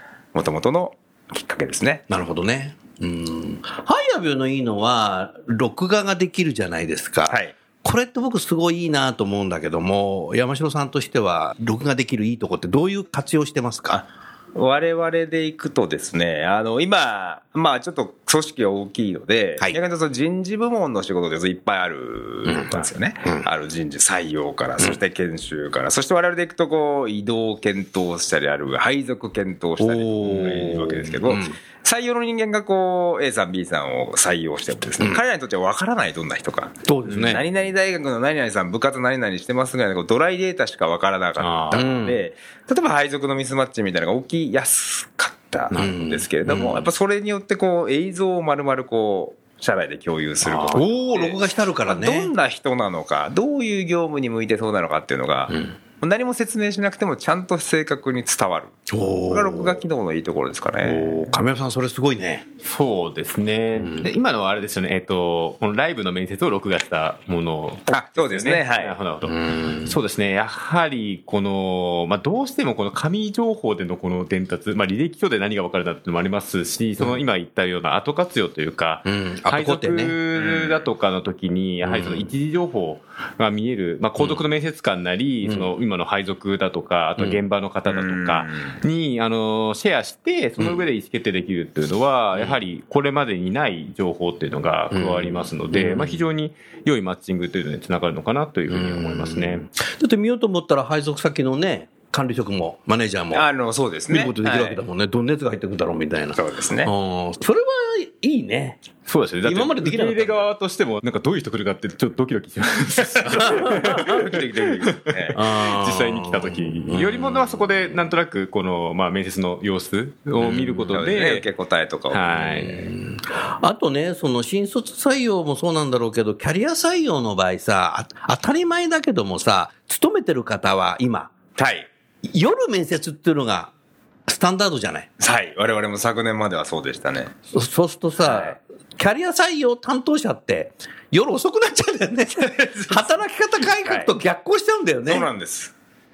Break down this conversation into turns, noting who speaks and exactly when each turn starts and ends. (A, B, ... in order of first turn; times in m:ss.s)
0:00.3-0:02.0 A
0:02.1-0:14.0 B
0:13.9-1:01.2 A
0:22.4-0:22.7 B
0:29.8-0:31.6 B
0:36.8-0:37.4 B
0:37.1-0:37.4 C
0:41.4-0:41.9 C
0:41.7-0:42.2 B
0:45.8-0:46.9 B
0:50.4-0:50.8 C
0:50.7-0:52.3 B
0:55.5-0:55.8 B
0:58.9-0:59.8 B
1:00.8-1:02.4 B
1:02.6-1:39.7 C
1:03.8-1:04.1 B
1:07.9-1:09.0 A
1:09.2-1:10.0 B
1:19.0-1:20.2 B
1:20.4-1:20.8 A
1:21.8-1:22.3 B
1:24.2-1:24.4 B
1:25.4-1:25.7 B
1:27.2-1:27.4 B
1:27.9-1:28.8 A
1:30.6-1:30.9 B
1:34.9-1:36.2 B
1:38.7-1:43.5 B
1:43.3-1:44.8 A
1:44.1-1:48.9 B
1:46.4-1:46.9 A
1:49.1-1:54.4 C
1:49.4-1:50.5 B
1:53.3-1:54.3 B
1:53.4-1:55.4 A
1:55.0-2:01.5 C
1:55.3-1:58.1 B
2:00.4-2:01.0 B
2:00.9-2:02.5 A
2:02.1-2:02.9 C
2:02.3-2:11.3 B
2:11.6-2:11.9 A
2:12.2-2:13.7 B
2:14.3-2:15.1 B
2:15.2-2:17.3 A
2:17.5-2:25.3 B
2:18.2-2:18.6 A
2:22.4-2:23.1 A
2:23.8-2:24.1 A
2:25.1-2:25.7 A